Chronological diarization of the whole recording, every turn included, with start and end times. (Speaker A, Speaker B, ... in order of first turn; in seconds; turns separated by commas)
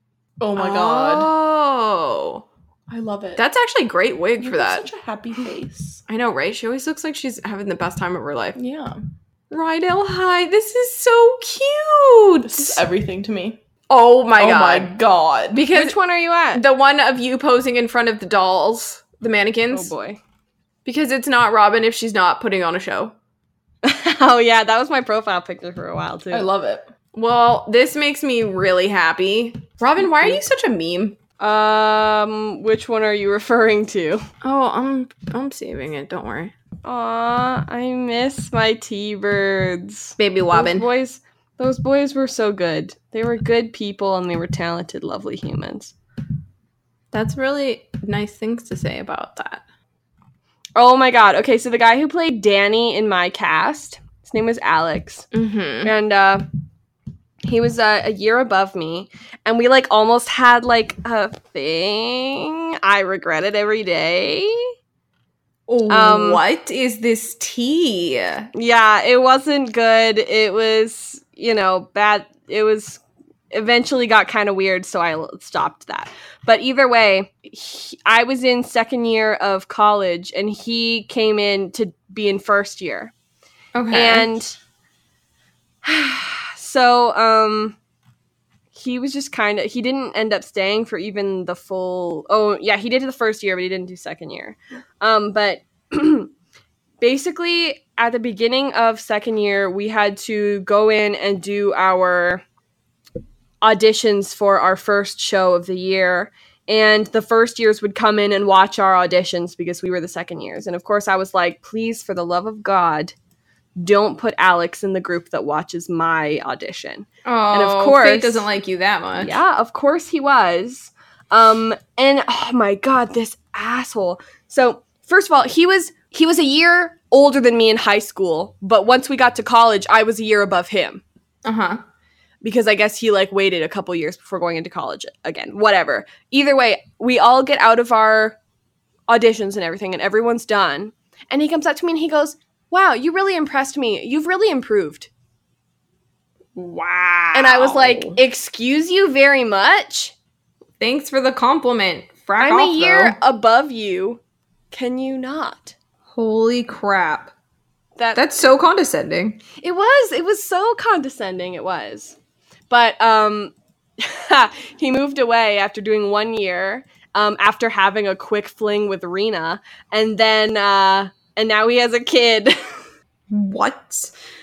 Speaker A: 0.4-1.3, Speaker B: 0.5-2.5, Speaker A: 2.9-3.4, Speaker B: 3.4-4.9, Speaker A: 4.4-6.0, Speaker B: 6.1-8.6, Speaker A: 8.6-9.0, Speaker B: 9.5-12.8, Speaker A: 12.4-13.6, Speaker B: 13.9-14.9, Speaker A: 14.4-15.6, Speaker B: 15.5-16.0, Speaker C: 15.7-16.6, Speaker B: 16.5-19.9, Speaker C: 19.7-20.2, Speaker B: 20.8-23.1, Speaker C: 23.8-26.5, Speaker A: 26.3-26.9, Speaker B: 27.1-31.2, Speaker A: 30.0-30.4, Speaker C: 31.4-34.2, Speaker B: 34.4-36.5, Speaker C: 36.8-45.9, Speaker B: 40.2-40.9, Speaker B: 47.1-49.6, Speaker C: 50.8-55.3, Speaker B: 55.3-55.9, Speaker C: 55.8-56.5, Speaker C: 57.4-64.6, Speaker B: 65.7-68.5, Speaker C: 65.9-66.4, Speaker C: 68.5-83.1, Speaker B: 83.7-84.3, Speaker C: 83.9-84.6, Speaker C: 85.8-87.8, Speaker C: 88.7-96.3, Speaker C: 97.0-102.4, Speaker C: 103.6-113.1, Speaker C: 113.8-118.5, Speaker B: 117.2-119.4, Speaker C: 119.2-131.0, Speaker B: 131.4-131.8, Speaker C: 132.4-138.4, Speaker C: 139.1-145.1, Speaker B: 147.3-148.2, Speaker C: 147.3-150.1, Speaker B: 150.8-153.2, Speaker C: 152.4-154.2, Speaker C: 154.7-155.7, Speaker B: 156.1-157.3, Speaker C: 157.9-158.5, Speaker B: 158.1-159.4, Speaker C: 159.6-162.2, Speaker C: 162.7-172.6, Speaker B: 173.3-174.1